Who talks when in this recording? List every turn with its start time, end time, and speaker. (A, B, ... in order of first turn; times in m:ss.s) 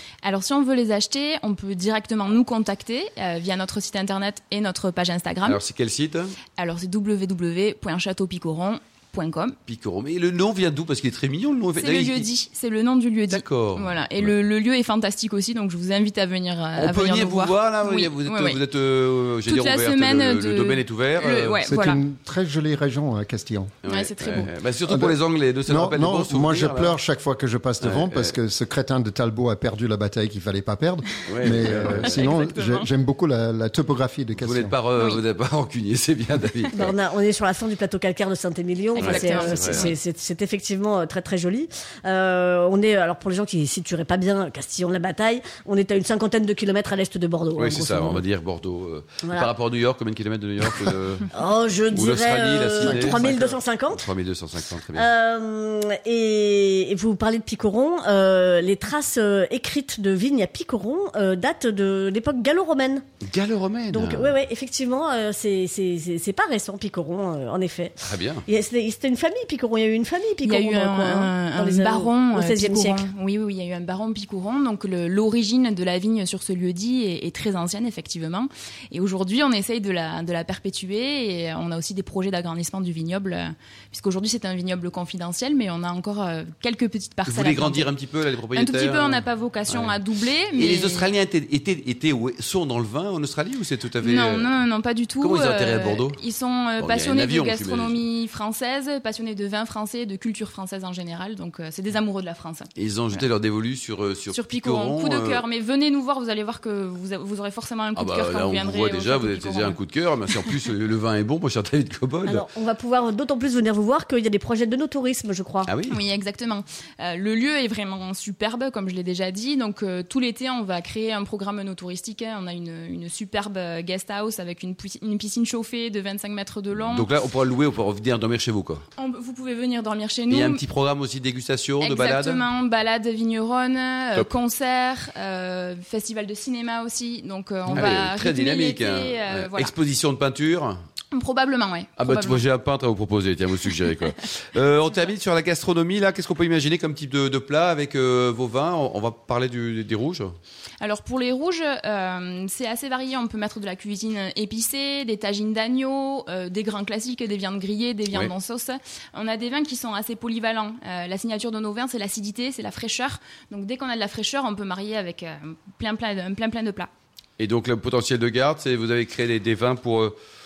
0:00.2-0:05.6 A
0:05.4-0:06.4 B
0:06.6-0:09.6 A
0:09.7-0:12.3 B
0:11.8-0:18.6 A
0:13.3-0:14.3 B
0:16.8-0:21.6 B
0:19.4-0:22.0 A
0:21.6-0:23.7 C
0:23.8-0:26.9 B
0:23.8-0:24.5 A
0:24.9-0:34.7 C
0:27.8-0:28.3 B
0:31.2-0:32.2 B
0:31.6-0:32.9 A
0:34.4-0:36.9 B
0:36.7-0:48.2 D
0:39.0-0:39.9 A
0:39.0-0:39.9 B
0:47.6-0:51.3 B
0:51.3-0:54.0 D
0:51.9-0:55.1 B
0:54.9-1:03.0 D
1:03.2-1:04.3 B
1:03.9-1:13.1 D
1:08.0-1:08.4 B
1:10.4-1:27.9 A
1:27.3-1:30.0 B
1:28.5-1:31.1 A
1:30.6-1:34.5 B
1:34.0-1:43.2 A
1:35.2-1:36.2 B
1:36.8-1:38.0 B
1:42.8-1:45.4 B
1:44.3-1:49.8 A
1:47.9-1:52.4 B
1:52.2-1:55.7 D
1:55.7-1:56.0 B
1:55.9-2:07.1 A
2:06.8-2:08.8 B
2:09.0-2:10.6 A
2:10.3-2:12.4 B
2:11.8-2:19.7 A
2:17.7-2:20.8 B
2:21.1-2:22.4 A
2:22.0-2:30.3 B
2:30.8-2:46.9 A
2:47.4-2:50.1 B